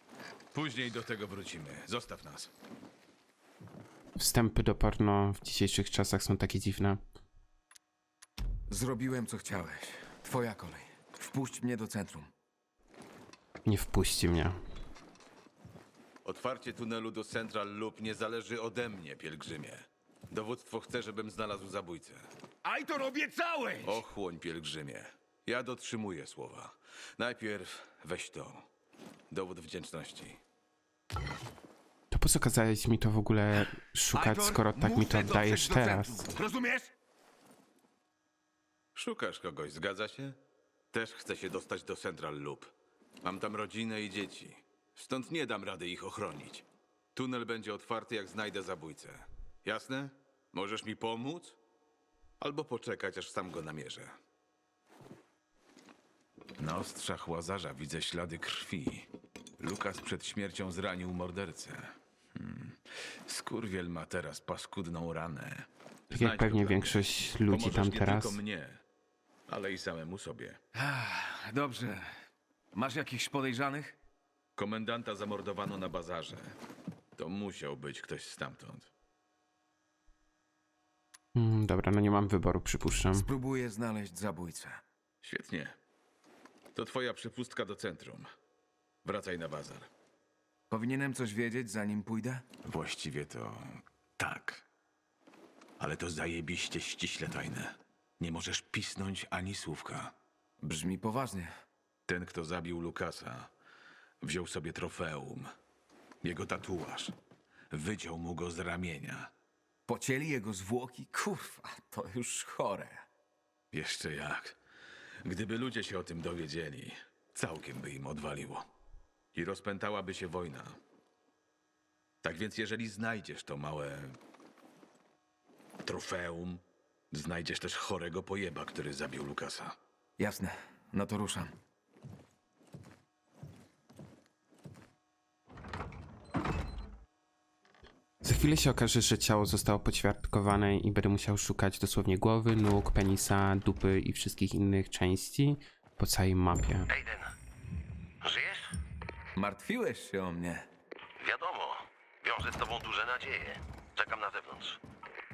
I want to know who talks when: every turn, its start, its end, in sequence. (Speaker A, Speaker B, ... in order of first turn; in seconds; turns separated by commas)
Speaker A: 0.5-2.5, Speaker B: 4.2-7.0, Speaker C: 8.7-12.3, Speaker B: 13.7-14.6, Speaker A: 16.2-22.3, Speaker C: 22.6-24.0, Speaker A: 23.8-28.7, Speaker A: 29.3-30.4, Speaker B: 32.1-36.3, Speaker C: 34.1-36.9, Speaker A: 39.0-40.4, Speaker A: 40.9-42.7, Speaker A: 43.2-51.6, Speaker A: 52.4-54.2, Speaker A: 56.6-59.1, Speaker A: 59.6-68.8, Speaker B: 66.1-68.4, Speaker A: 69.5-70.6, Speaker C: 70.7-72.1, Speaker C: 72.7-74.0, Speaker A: 74.6-76.5, Speaker A: 77.2-78.9, Speaker B: 81.3-83.3, Speaker C: 83.1-84.8, Speaker A: 85.2-85.8, Speaker A: 86.8-88.3, Speaker A: 89.0-89.9, Speaker C: 90.7-92.5, Speaker A: 92.6-94.7, Speaker A: 95.8-100.1, Speaker C: 100.6-101.5, Speaker A: 102.1-103.5, Speaker A: 104.2-105.5, Speaker A: 106.2-107.2, Speaker A: 107.7-109.3, Speaker C: 109.9-113.1, Speaker A: 113.7-114.6, Speaker A: 115.2-118.7, Speaker A: 119.3-120.8, Speaker A: 122.2-124.2, Speaker A: 125.8-129.8, Speaker C: 130.2-131.5, Speaker B: 138.2-146.9, Speaker D: 146.9-147.3, Speaker D: 148.2-148.7, Speaker C: 149.4-150.7, Speaker D: 151.2-154.8